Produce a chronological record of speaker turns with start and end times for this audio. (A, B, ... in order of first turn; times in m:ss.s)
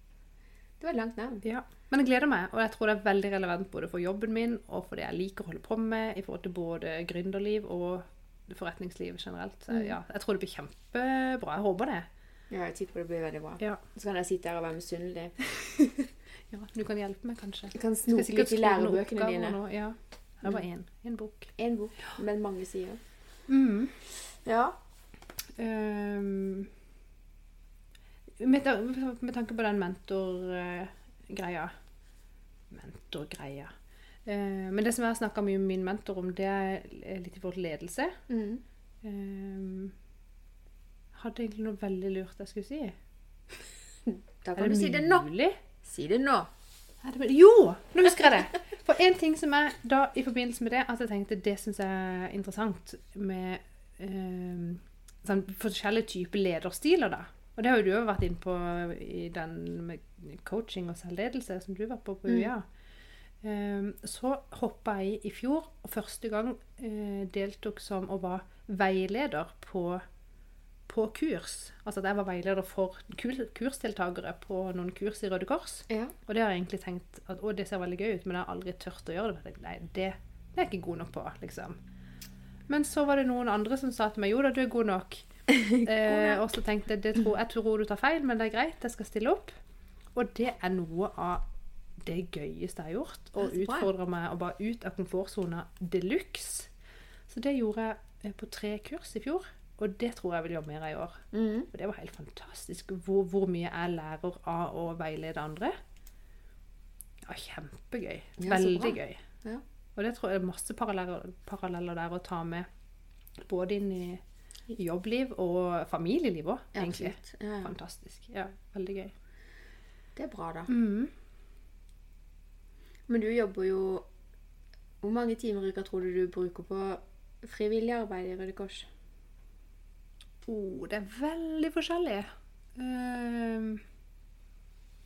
0:00.8-0:01.4 A
0:01.4-0:12.1 B
0:12.5-0:15.4 A
0:15.5-0:21.5 B
0:17.7-0:19.6 A
0:21.6-0:23.0 A
0:23.5-0:24.0 B
0:24.4-0:24.8 A
0:25.6-0:26.7 B
0:28.4-0:31.7 B
0:32.7-0:33.7 B
0:34.3-0:38.2 B
0:38.3-0:38.6 A
0:39.0-0:39.9 B
0:41.2-0:43.0 B
0:44.1-0:45.3 A
0:44.6-0:45.6 B
0:45.8-0:46.5 A
0:47.0-1:02.6 B
1:03.4-1:10.0 B
1:10.9-1:21.8 B
1:15.9-1:16.1 A
1:22.7-1:29.6 B
1:25.5-1:26.4 A
1:30.2-1:31.4 B
1:32.0-1:36.7 B
1:33.4-1:33.9 A
1:37.3-1:45.8 B
1:41.3-1:41.7 A
1:47.3-1:49.2 B
1:48.4-1:49.6 A
1:50.0-1:52.7 B
1:53.4-1:54.2 B
1:54.7-1:59.1 B
1:56.7-1:57.7 A
2:00.2-2:00.7 A
2:00.7-2:01.1 B
2:03.1-2:04.1 A
2:05.0-2:08.9 A
2:10.5-2:13.8 B